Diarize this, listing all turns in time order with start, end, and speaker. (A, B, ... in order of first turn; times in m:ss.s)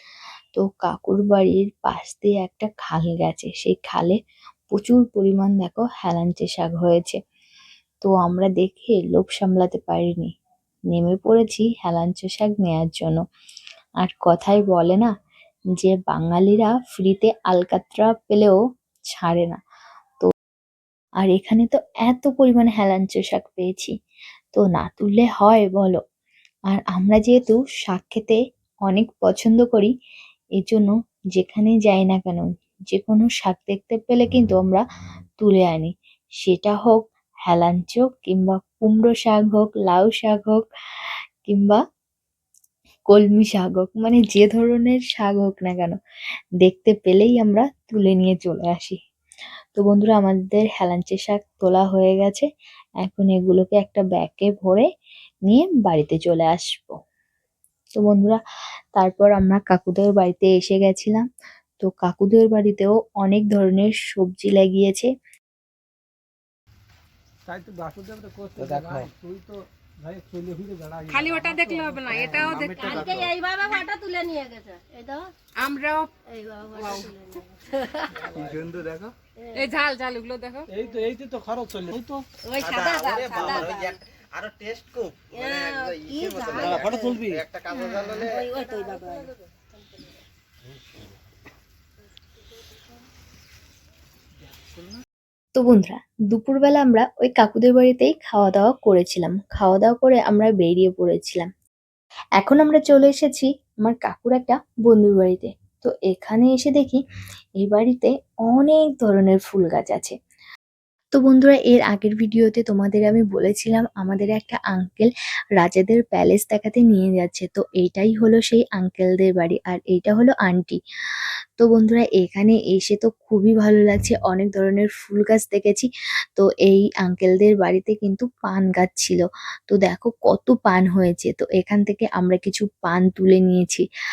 0:00.6-0:04.2 A
0:04.7-0:07.2 A
0:08.0-0:10.3 A
0:10.9-0:13.2 A
0:14.0-0:15.1 A
0:15.8-0:18.6 A
0:19.2-0:19.6 A
0:21.2-0:23.9 A
0:24.5-0:26.0 A
0:26.7-0:29.9 A
0:30.6-0:34.8 A
0:35.4-0:40.6 A
0:41.5-0:41.8 A
0:43.1-0:46.0 A
0:46.6-0:49.0 A
0:49.8-0:52.5 A
0:53.0-0:54.9 A
0:55.5-0:57.0 A
0:58.0-0:58.4 A
0:59.0-1:01.3 A
1:01.8-1:05.1 A
1:07.5-1:12.7 B
1:08.6-1:09.1 C
1:11.1-1:13.8 D
1:12.7-1:15.3 E
1:15.6-1:16.1 D
1:16.3-1:17.5 E
1:16.8-1:17.2 D
1:18.2-1:18.7 B
1:18.5-1:18.9 C
1:19.6-1:20.7 D
1:20.7-1:22.3 B
1:22.6-1:24.0 E
1:22.6-1:28.3 C
1:25.3-1:27.3 E
1:27.2-1:27.4 B
1:27.7-1:28.2 D
1:27.9-1:29.3 E
1:35.6-1:41.5 A
1:42.4-1:47.0 A
1:47.6-1:50.2 A
1:51.2-2:00.8 A
2:01.6-2:13.8 A